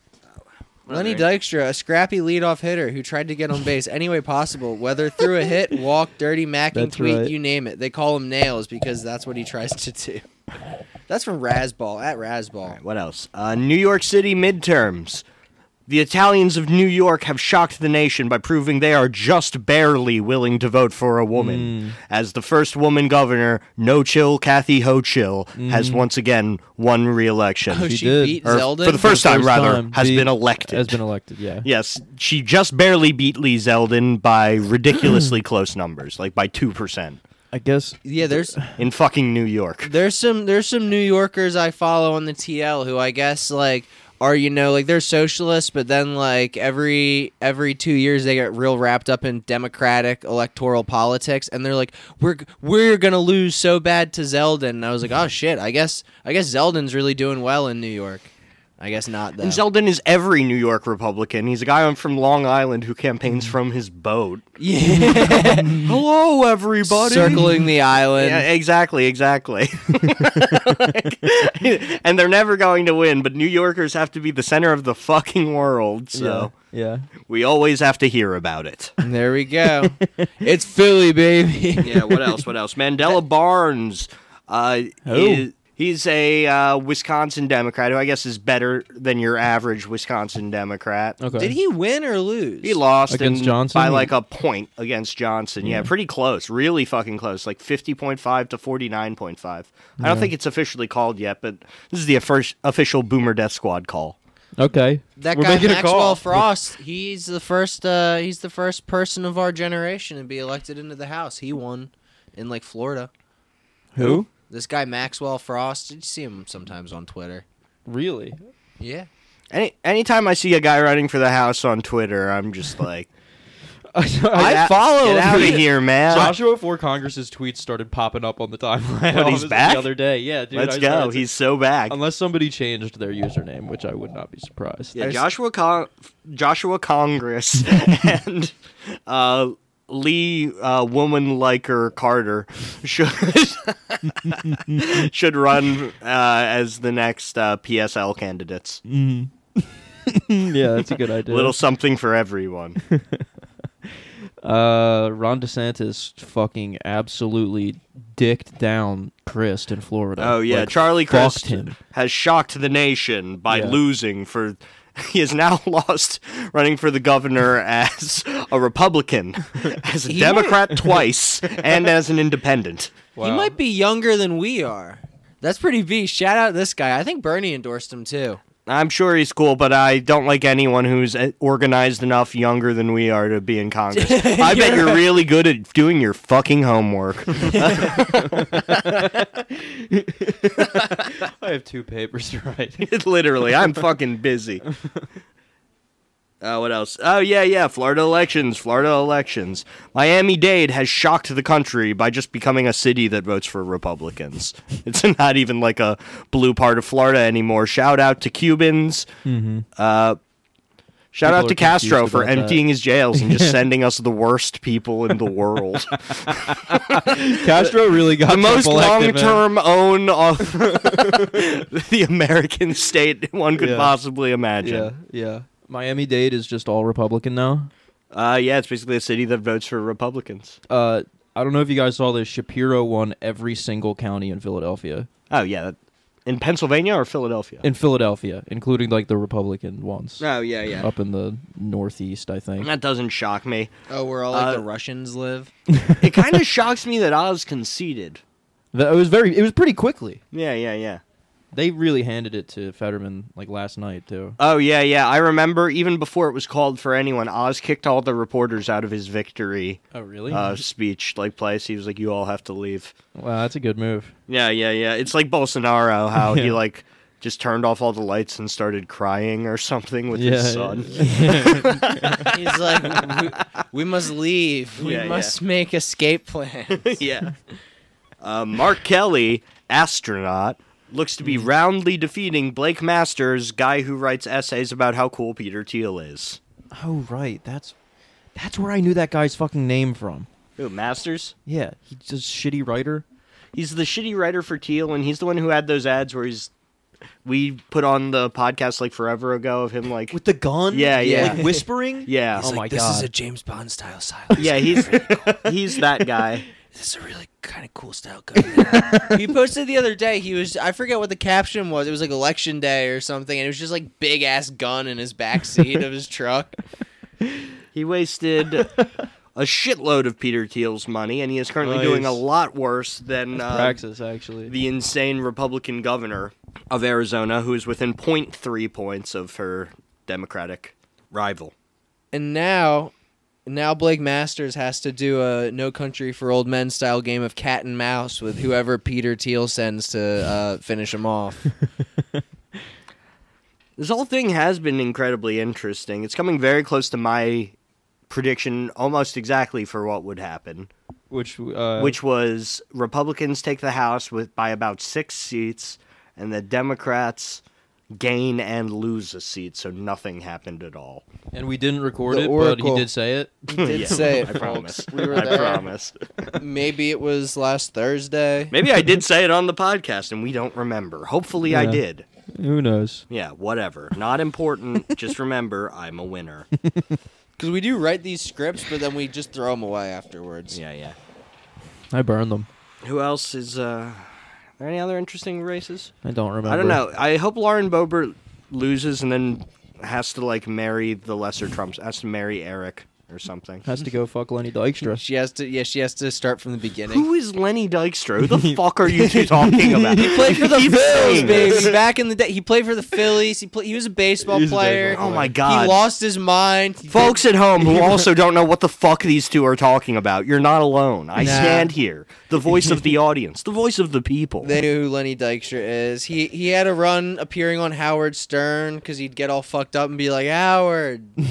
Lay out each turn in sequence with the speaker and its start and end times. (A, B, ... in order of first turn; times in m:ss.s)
0:00.3-0:01.3 A
0:00.9-0:10.2 B
0:06.7-0:07.3 C
0:11.1-0:12.8 B
0:12.7-0:15.2 A
0:15.9-0:27.9 A
0:21.4-0:22.0 C
0:25.6-0:26.0 C
0:27.7-0:29.4 B
0:27.8-0:28.5 C
0:28.4-0:31.0 A
0:29.0-0:31.7 C
0:31.6-0:37.2 A
0:37.5-0:38.8 C
0:38.0-0:38.6 B
0:38.8-0:39.9 A
0:39.8-0:59.6 B
0:59.4-1:04.5 A
1:04.6-1:05.8 B
1:05.0-1:05.8 C
1:05.7-1:07.5 A
1:06.9-1:08.4 B
1:08.2-1:16.5 A
1:16.1-1:17.1 C
1:17.3-1:18.9 A
1:19.0-1:22.3 B
1:19.8-1:20.3 C
1:21.8-1:31.2 A
1:25.0-1:25.4 C
1:31.2-1:31.5 C
1:31.3-1:32.8 B
1:32.6-1:44.2 A
1:33.1-1:34.1 C
1:35.6-1:35.9 C
1:40.0-1:40.3 C
1:44.6-1:46.4 C
1:45.2-1:53.1 B
1:53.9-1:54.3 C
1:54.5-1:57.4 B
1:57.9-1:58.4 C
1:58.8-1:59.1 B
1:59.5-2:03.1 A
2:03.9-2:11.3 C
2:04.3-2:06.3 B
2:04.3-2:06.3 A
2:09.1-2:09.9 A
2:10.5-2:12.0 A
2:11.9-2:15.2 C
2:14.9-2:28.8 A
2:28.9-2:31.6 C
2:31.2-2:32.8 A
2:32.9-2:33.2 C
2:34.4-2:41.8 C
2:40.2-2:53.0 A
2:43.5-2:43.8 C
2:50.0-2:50.8 B
2:53.2-2:53.5 C
2:53.2-2:58.4 B
2:58.6-3:09.2 A
3:03.9-3:05.2 B
3:07.5-3:07.9 B
3:08.0-3:12.9 C
3:12.8-3:14.6 A
3:16.4-3:29.1 A
3:29.2-3:29.6 C
3:29.8-3:30.2 A
3:31.1-3:44.9 A
3:31.2-3:33.6 C
3:36.2-3:39.4 C
3:40.8-3:41.3 C
3:43.6-3:43.9 C
3:44.6-3:47.7 C
3:48.1-3:50.6 A
3:50.7-3:55.1 C
3:55.3-3:57.6 A
3:57.6-4:00.3 C
4:00.2-4:00.9 A
4:00.8-4:02.7 C
4:02.6-4:03.7 A
4:03.9-4:05.5 B
4:04.3-4:04.6 A
4:05.7-4:06.0 C
4:06.0-4:08.2 A
4:08.7-4:10.2 C
4:10.3-4:11.0 A
4:11.5-4:14.4 C
4:14.4-4:22.9 A
4:19.9-4:20.6 C
4:23.1-4:24.1 C
4:24.3-4:33.3 A
4:26.2-4:26.6 C
4:30.1-4:32.3 C
4:32.3-4:37.0 B
4:34.8-4:35.4 A
4:36.7-4:37.4 A
4:38.2-4:46.4 A
4:46.7-4:47.7 C
4:48.4-4:50.3 C
4:50.6-4:51.3 A
4:51.4-4:53.0 C
4:53.5-4:56.5 A
4:57.2-5:00.2 A
5:00.1-5:03.1 C
5:00.7-5:01.5 A
5:01.0-5:01.6 B
5:02.0-5:02.4 A
5:02.4-5:05.5 B
5:04.4-5:06.4 A
5:06.7-5:16.6 B
5:08.7-5:09.0 C
5:17.7-5:18.7 A
5:19.3-5:23.8 A
5:21.6-5:22.2 C
5:23.3-5:24.5 C
5:24.5-5:31.5 A
5:32.1-5:32.9 B
5:33.4-5:41.5 B
5:43.8-5:47.5 A
5:48.1-5:50.7 A
5:51.1-5:52.0 C
5:51.8-5:57.4 A
5:57.9-6:01.0 A
6:01.3-6:04.4 C
6:02.1-6:02.9 B
6:03.5-6:05.6 B
6:03.6-6:06.3 A
6:05.1-6:05.4 C
6:06.4-6:08.5 B
6:08.5-6:12.0 A
6:11.5-6:11.8 C
6:12.3-6:13.0 C
6:13.1-6:16.5 A
6:17.4-6:20.6 B
6:20.5-6:21.0 A
6:21.9-6:22.5 C
6:22.8-6:25.9 A
6:26.0-6:26.8 C
6:26.4-6:33.6 A
6:33.6-6:35.0 C
6:34.9-6:37.0 B
6:36.9-6:41.7 A
6:38.2-6:41.8 C
6:39.9-6:47.8 B
6:44.2-6:45.3 C
6:44.9-6:45.8 A
6:46.9-6:54.5 A
6:51.2-6:51.7 B
6:54.4-7:01.2 B